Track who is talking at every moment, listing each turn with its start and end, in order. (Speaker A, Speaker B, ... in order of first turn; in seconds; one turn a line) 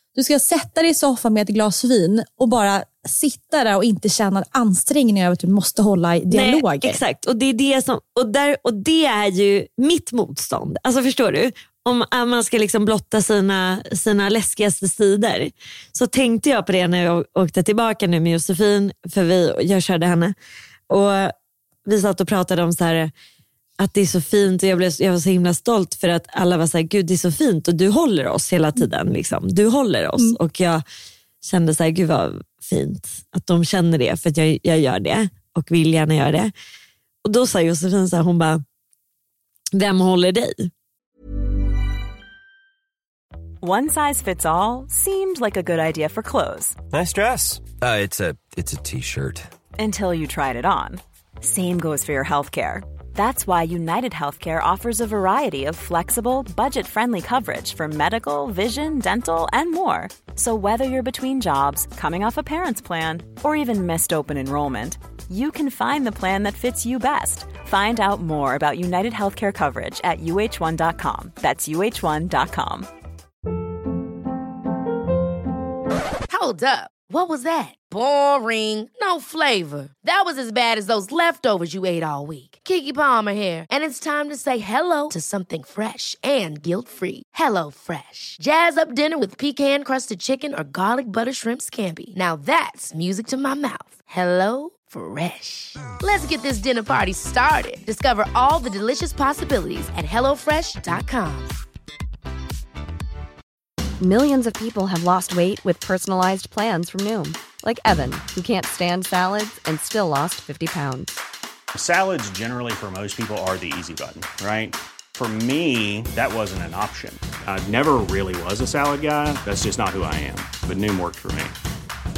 Speaker A: 0.1-7.0
Speaker B: 6.3-20.4
Speaker B: 20.9-21.3
Speaker B: 21.9-23.1
Speaker B: 23.8-30.8
Speaker B: 31.4-36.5
Speaker B: 37.2-38.6
Speaker B: 39.7-40.7
Speaker C: 43.6-46.8
Speaker D: 46.9-49.5
Speaker C: 49.8-72.9
Speaker E: 76.3-101.6
Speaker F: 104.0-111.2
Speaker G: 111.8-121.6